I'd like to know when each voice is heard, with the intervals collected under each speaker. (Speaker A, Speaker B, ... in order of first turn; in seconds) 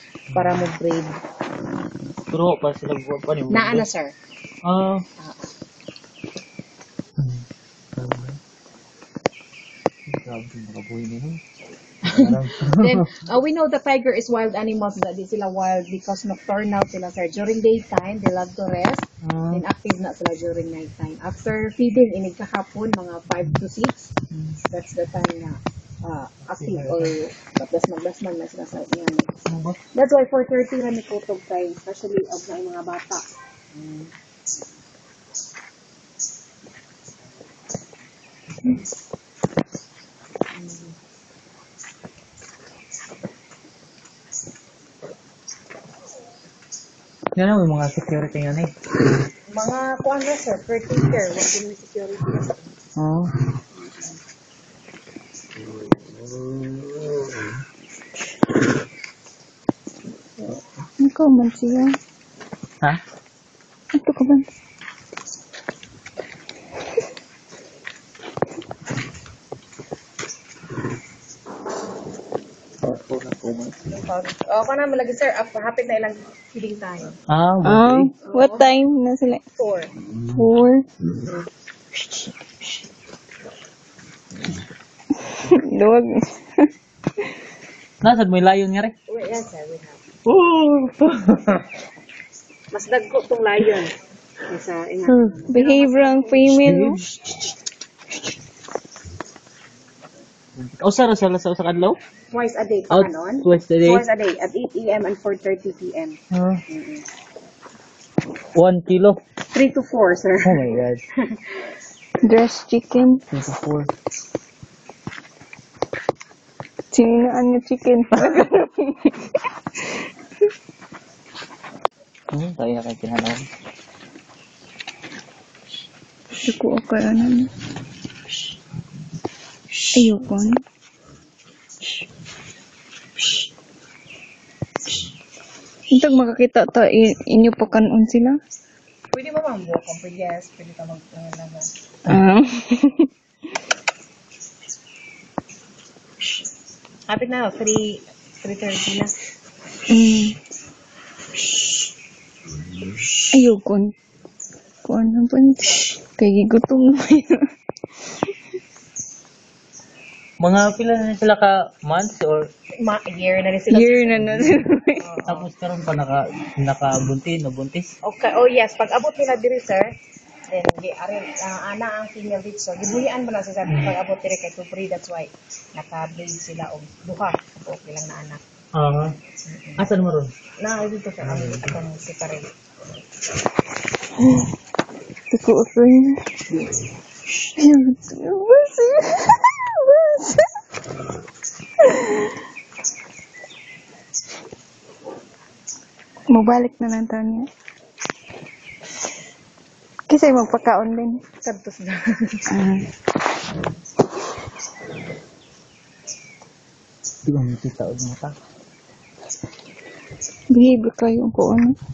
Speaker A: 0.3-0.7, 2.3-3.9, 4.7-5.0, 8.0-8.4, 10.1-11.4, 12.1-13.2, 19.2-19.6, 24.3-24.6, 26.6-27.2, 29.5-29.8, 47.4-48.7, 53.0-53.4, 72.8-73.8, 77.3-78.1, 88.0-88.9, 90.3-91.7, 95.1-95.3, 96.6-97.4, 100.6-102.0, 102.9-104.0, 106.3-106.6, 108.6-109.2, 110.4-111.0, 113.3-113.9, 118.1-118.5, 122.3-123.5, 160.4-162.4, 165.3-167.9, 173.7-173.9, 178.8-179.1, 179.8-180.3, 181.2-181.8, 207.3-208.3
Speaker B: 0.3-1.2, 3.5-4.1, 5.2-5.5, 12.1-24.1, 24.7-29.3, 29.9-34.1, 40.6-40.9, 49.5-52.6, 73.9-77.2, 78.3-78.7, 79.6-79.9, 89.1-90.0, 92.7-96.5, 102.3-107.1, 109.5-110.7, 139.1-141.7, 147.1-149.1, 162.8-165.5, 168.0-169.9, 170.5-178.4, 179.5-179.9, 180.6-182.5, 201.4-202.5
Speaker C: 61.0-62.0, 64.0-64.5, 77.6-79.4, 80.3-80.8, 85.2-86.4, 95.5-97.0, 112.2-113.2, 116.9-119.3, 126.5-127.5, 130.0-130.6, 136.0-138.4, 142.1-143.1, 149.9-150.4, 153.3-153.9, 154.9-157.4, 163.7-165.1, 185.3-186.2, 187.6-190.5, 191.8-192.4, 196.3-197.5, 200.1-201.2, 202.5-202.9, 210.5-211.8